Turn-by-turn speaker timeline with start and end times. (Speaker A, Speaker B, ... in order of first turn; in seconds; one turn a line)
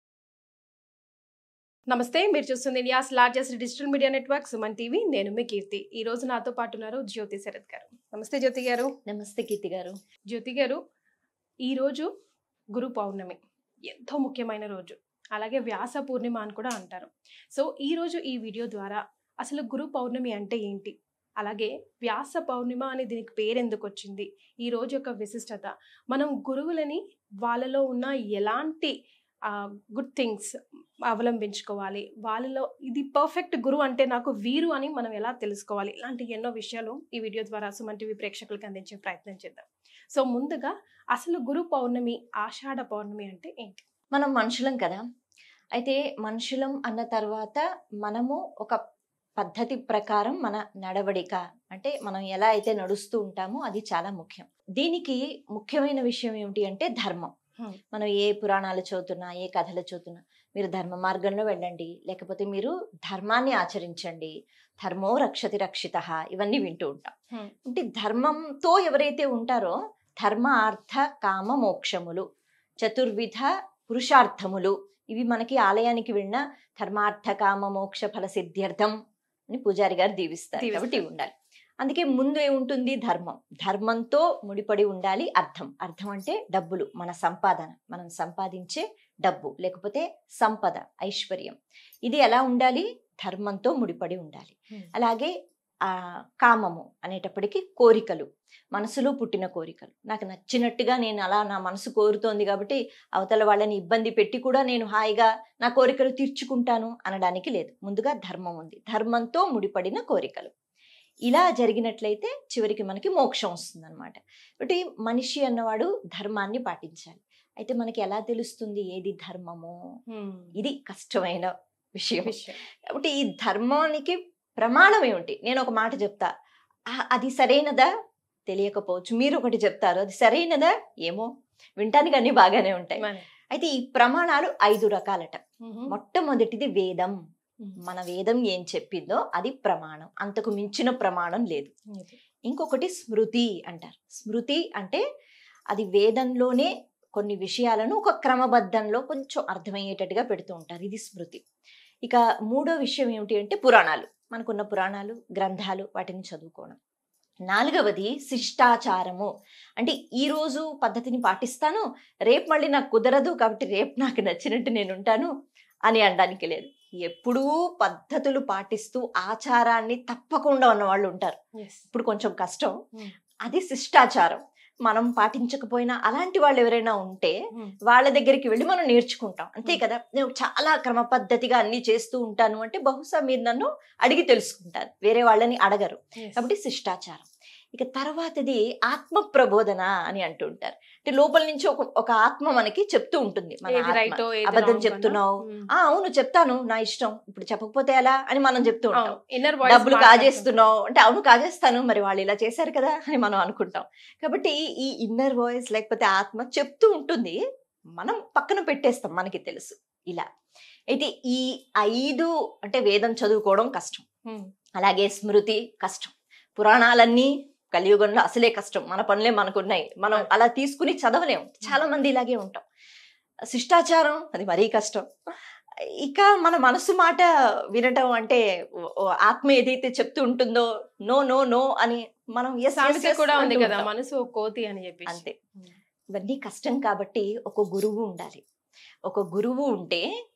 Speaker A: 1.9-8.9
Speaker B: 9.1-9.9
Speaker A: 10.3-10.8
Speaker A: 11.7-12.1
Speaker A: 12.8-28.9
Speaker A: 29.5-30.5
Speaker A: 31.1-43.8
Speaker B: 44.1-45.0
Speaker B: 45.8-48.8
Speaker B: 49.4-57.3
Speaker B: 57.9-64.3
Speaker B: 64.8-67.1
Speaker B: 67.7-72.2
Speaker B: 72.8-78.9
Speaker B: 79.5-95.3
Speaker A: 80.6-81.0
Speaker B: 95.8-110.5
Speaker B: 111.3-119.8
Speaker A: 120.1-120.5
Speaker B: 120.6-126.3
Speaker A: 122.2-122.6
Speaker B: 126.9-127.9
Speaker B: 128.5-131.3
Speaker B: 131.8-137.2
Speaker A: 133.0-133.3
Speaker A: 135.6-135.9
Speaker B: 137.8-141.7
Speaker A: 141.9-142.2
Speaker B: 142.5-145.0
Speaker B: 145.7-151.4
Speaker B: 152.1-156.8
Speaker B: 157.5-165.3
Speaker B: 165.9-171.4
Speaker A: 171.6-171.8
Speaker B: 171.9-172.7
Speaker B: 173.4-177.3
Speaker B: 177.9-207.4
Speaker A: 193.7-195.7
Speaker A: 199.0-200.7
Speaker B: 208.0-210.2
Speaker B: 210.9-214.1
Speaker B: 214.8-222.6
Speaker B: 223.5-225.1
Speaker B: 226.0-233.9
Speaker A: 232.8-235.8
Speaker B: 235.1-235.3
Speaker B: 236.2-238.4
Speaker B: 239.1-240.0